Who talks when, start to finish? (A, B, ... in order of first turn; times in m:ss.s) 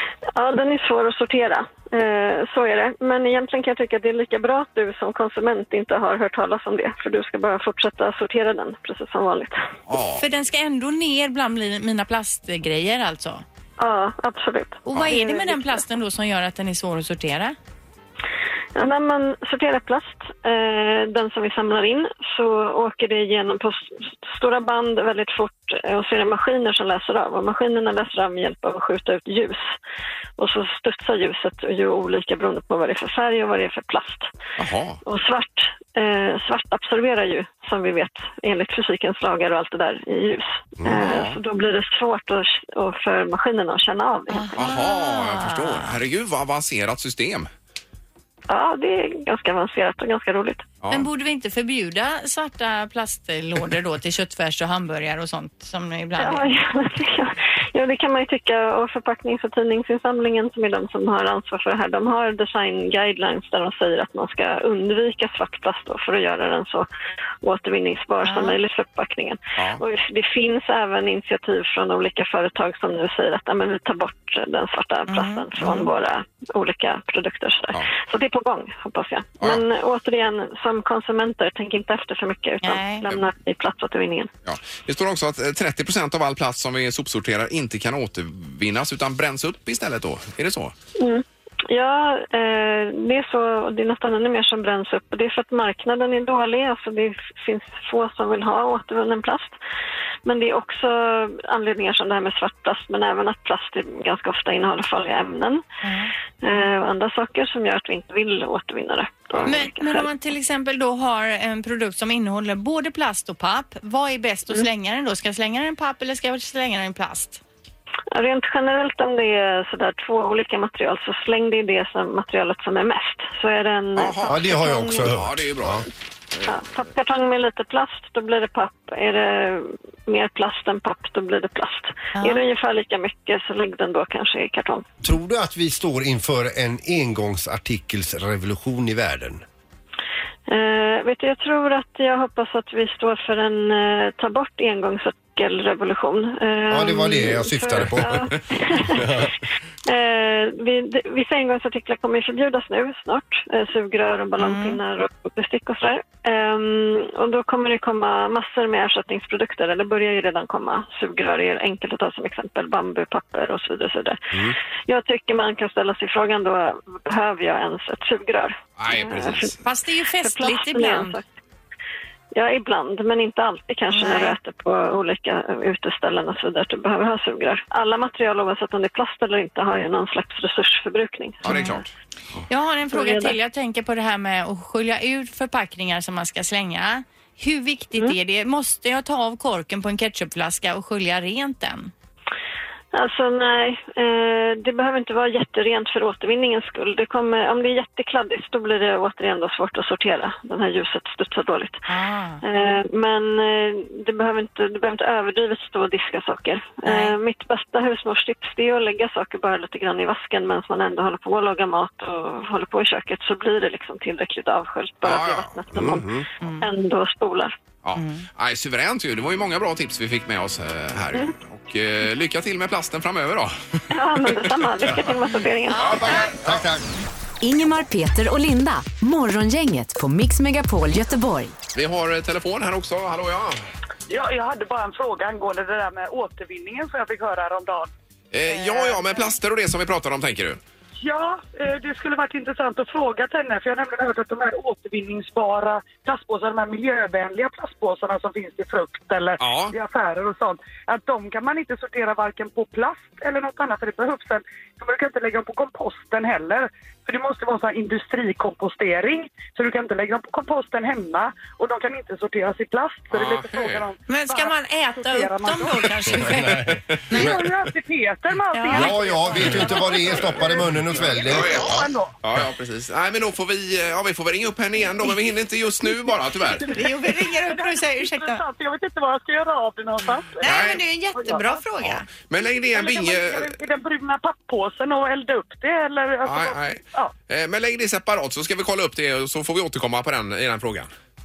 0:00.3-0:09.6 A
0:09.9-0:10.2 B
0:10.2-0:13.4 C
0:13.8-0:15.8 A
0:14.8-0:17.6 C
0:18.7-0:29.7 A
0:30.4-0:34.3 A
0:34.6-0:35.0 B
0:35.0-0:44.8 A
0:40.9-0:41.4 B
0:44.3-0:45.9 C
0:44.6-0:47.5 B
0:48.5-0:50.6 A
0:50.8-0:51.1 B
0:50.9-0:56.5 C
0:56.2-1:06.9 A
1:07.4-1:24.3 A
1:08.2-1:08.6 C
1:09.6-1:09.8 B
1:15.1-1:15.9 C
1:22.6-1:23.0 C
1:24.4-1:30.7 B
1:31.0-1:39.5 A
1:40.2-1:45.6 A
1:45.8-1:46.1 C
1:46.4-1:50.1 A
1:49.4-1:57.4 C
1:58.1-2:05.1 A
2:04.0-2:06.6 B
2:04.3-2:05.8 D
2:06.4-2:14.8 A
2:12.1-2:12.4 C
2:15.0-2:19.4 D
2:20.5-2:29.0 A
2:26.7-2:29.3 D
2:29.8-2:49.6 A
2:34.4-2:34.8 C
2:48.8-2:49.6 B
2:49.6-2:51.2 C
2:50.2-2:51.2 A
2:52.3-3:01.8 A
2:53.9-2:54.4 C
3:01.4-3:01.9 B
3:01.4-3:01.8 C
3:02.5-3:11.9 C
3:02.9-3:03.3 A
3:12.9-3:21.8 A
3:21.9-3:22.4 C
3:22.4-3:37.6 A
3:26.8-3:27.1 C
3:35.0-3:36.0 B
3:35.7-3:36.2 D
3:36.4-3:36.7 C
3:37.8-3:43.8 B
3:38.0-3:38.2 C
3:43.9-3:46.2 A
3:45.7-3:46.4 C
3:45.8-3:46.6 B
3:46.1-3:46.8 D
3:47.4-3:51.5 E
3:51.7-3:53.6 B
3:54.1-3:57.9 F
3:58.3-4:00.6 B
3:58.5-3:59.3 F
4:01.0-4:26.2 F
4:09.4-4:09.8 B
4:23.1-4:23.9 B
4:24.1-4:27.4 C
4:26.2-4:27.4 D
4:27.1-4:32.2 F
4:28.5-4:28.9 C
4:28.7-4:31.9 D
4:29.4-4:36.7 B
4:36.5-4:41.6 F
4:36.7-4:38.4 C
4:40.4-4:40.8 B
4:40.4-4:42.1 C
4:41.8-4:43.6 B
4:42.7-4:47.1 F
4:46.2-4:50.9 B